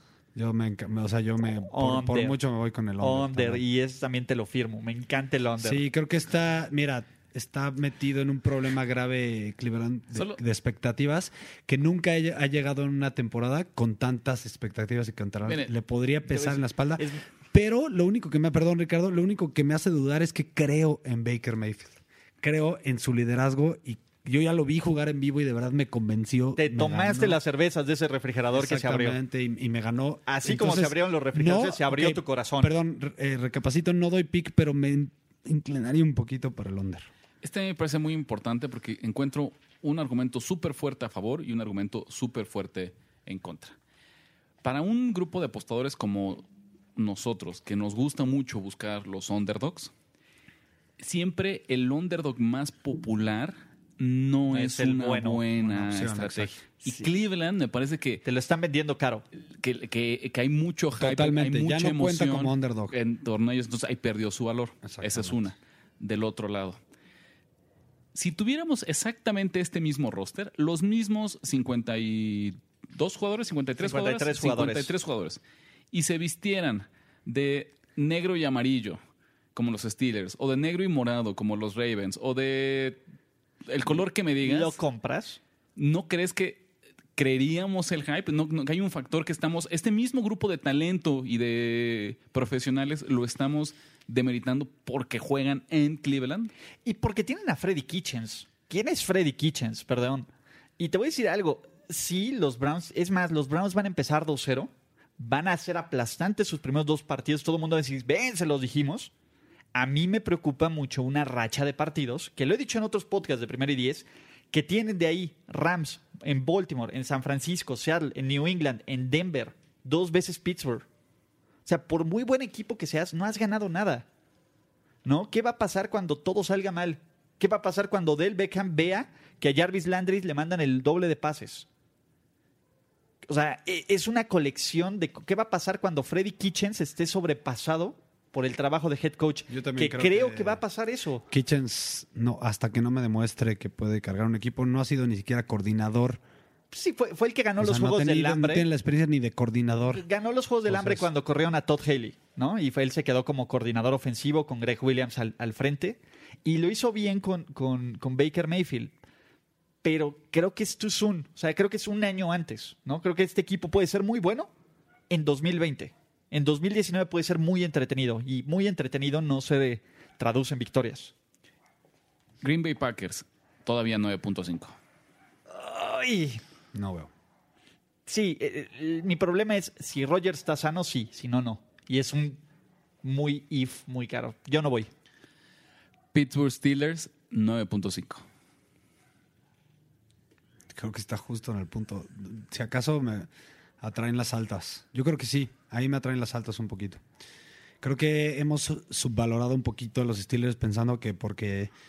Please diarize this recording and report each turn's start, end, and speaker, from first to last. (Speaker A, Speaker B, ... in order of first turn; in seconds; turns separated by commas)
Speaker A: 0.3-3.6, Speaker B: 1.7-2.4, Speaker B: 3.0-5.8, Speaker A: 5.6-27.4, Speaker C: 10.1-10.4, Speaker B: 17.0-17.2, Speaker B: 26.6-29.2, Speaker A: 28.5-37.1, Speaker B: 30.2-32.7, Speaker C: 37.4-43.7, Speaker C: 44.6-49.9, Speaker C: 51.0-58.2, Speaker B: 54.5-55.4, Speaker A: 55.6-56.6, Speaker B: 56.8-57.1, Speaker B: 58.2-59.2, Speaker C: 59.5-66.8, Speaker A: 61.0-62.9, Speaker A: 64.8-65.4, Speaker C: 68.1-75.4, Speaker B: 73.8-74.9, Speaker C: 75.9-79.0, Speaker C: 79.5-83.0, Speaker C: 83.7-84.8, Speaker B: 84.4-85.4, Speaker C: 85.8-96.5, Speaker B: 96.8-100.3, Speaker B: 100.8-109.1, Speaker B: 109.7-120.8, Speaker B: 121.7-124.0, Speaker B: 125.0-131.7, Speaker B: 133.2-141.2, Speaker A: 139.5-140.6, Speaker A: 141.3-146.2, Speaker B: 146.7-148.7, Speaker A: 147.6-150.0, Speaker B: 149.9-158.9, Speaker A: 150.7-151.1, Speaker B: 159.8-164.5, Speaker B: 165.1-171.1, Speaker C: 172.4-174.7, Speaker B: 175.5-176.4, Speaker A: 176.7-177.1, Speaker B: 178.1-182.4, Speaker B: 183.0-184.9, Speaker C: 186.1-188.2, Speaker A: 190.7-193.3, Speaker A: 193.8-197.0, Speaker A: 197.8-201.7